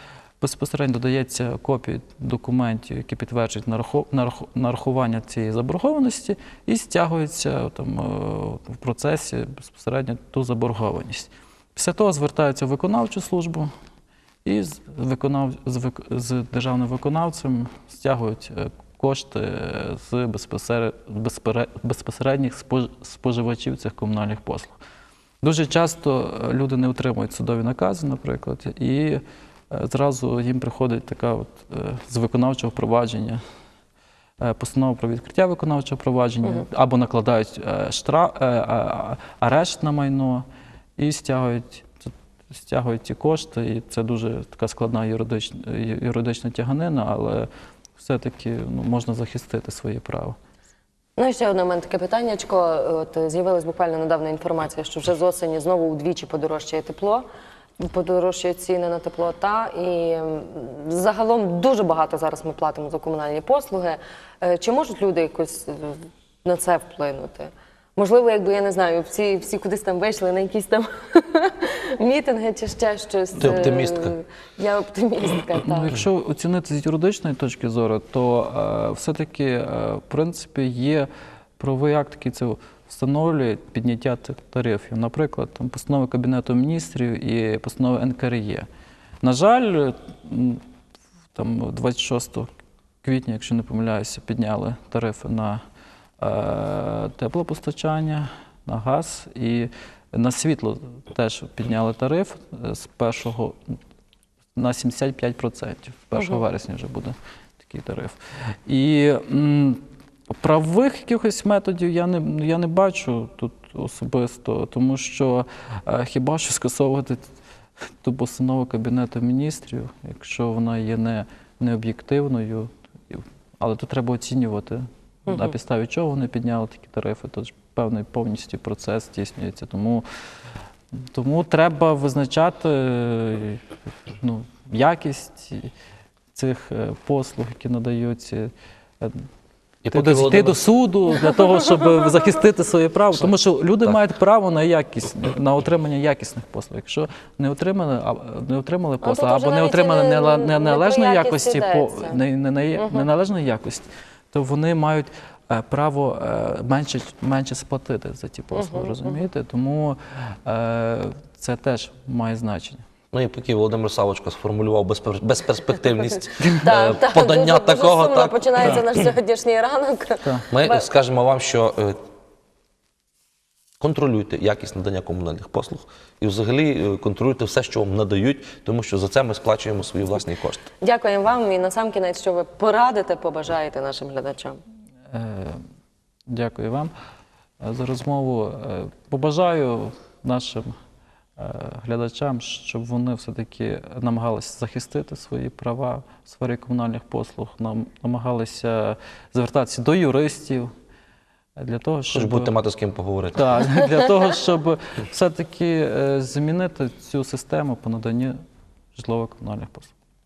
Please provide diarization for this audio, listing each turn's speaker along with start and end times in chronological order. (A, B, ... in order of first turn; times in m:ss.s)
0:00.4-0:13.7 A
0:14.4-0:24.8 A
0:25.4-0:33.4 A
0:34.4-0:40.4 A
0:36.4-0:36.7 B
0:41.0-0:50.4 A
0:51.2-0:57.3 B
0:57.8-1:16.0 B
1:13.4-1:14.1 C
1:15.5-1:28.7 A
1:29.2-1:30.6 A
1:31.3-1:32.5 A
1:33.0-1:35.6 A
1:36.2-1:43.8 A
1:44.5-1:57.3 A
1:58.0-2:10.0 A
2:10.9-2:15.7 A
2:16.3-2:19.3 A
2:19.8-2:20.6 C
2:19.9-2:42.8 A
2:29.0-2:32.2 B
2:32.7-2:33.1 B
2:38.5-2:39.2 B
2:43.1-2:49.0 C
2:46.6-2:50.8 B
2:50.2-2:50.5 A
2:50.5-2:52.0 C
2:53.8-3:00.6 C
3:00.8-3:04.6 B
3:05.1-3:05.6 A
3:06.3-3:06.9 A
3:07.6-3:10.7 A
3:11.4-3:20.7 A
3:21.6-3:22.5 A
3:22.1-3:23.6 C
3:23.3-3:28.4 A
3:28.9-3:29.9 A